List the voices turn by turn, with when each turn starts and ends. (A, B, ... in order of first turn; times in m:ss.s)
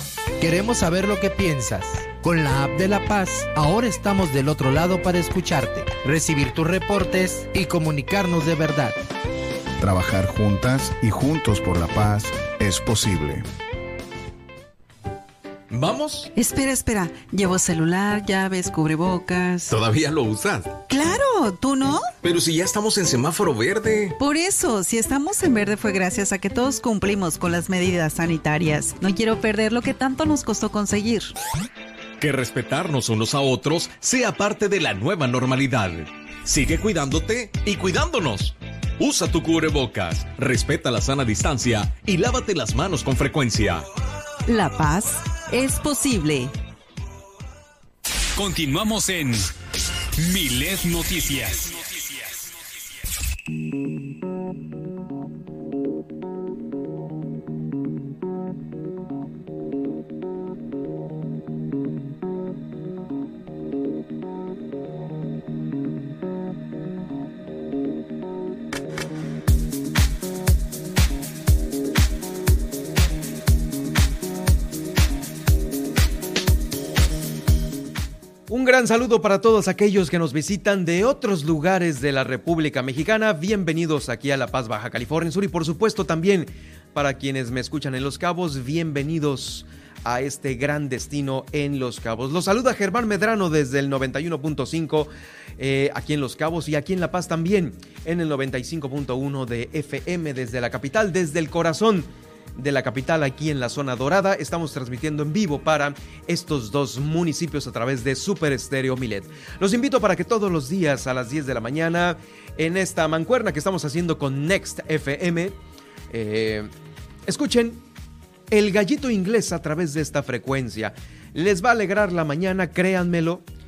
0:00.4-0:09.0 A
0:09.8-0:13.5 B
0:15.7-0:16.3 C
0:16.3-0:19.7 D
0:19.7-0:20.8 C
0:20.9-0:22.1 D
0:22.2-0:24.1 C
0:24.2-0:31.3 D
0:32.2-0:43.8 C
0:44.4-0:46.5 D
0:48.4-0:49.5 E
0:50.2-0:52.4 E
1:18.5-1:55.6 F
1:56.1-1:56.7 F
1:57.2-1:57.8 F
1:58.5-2:03.4 F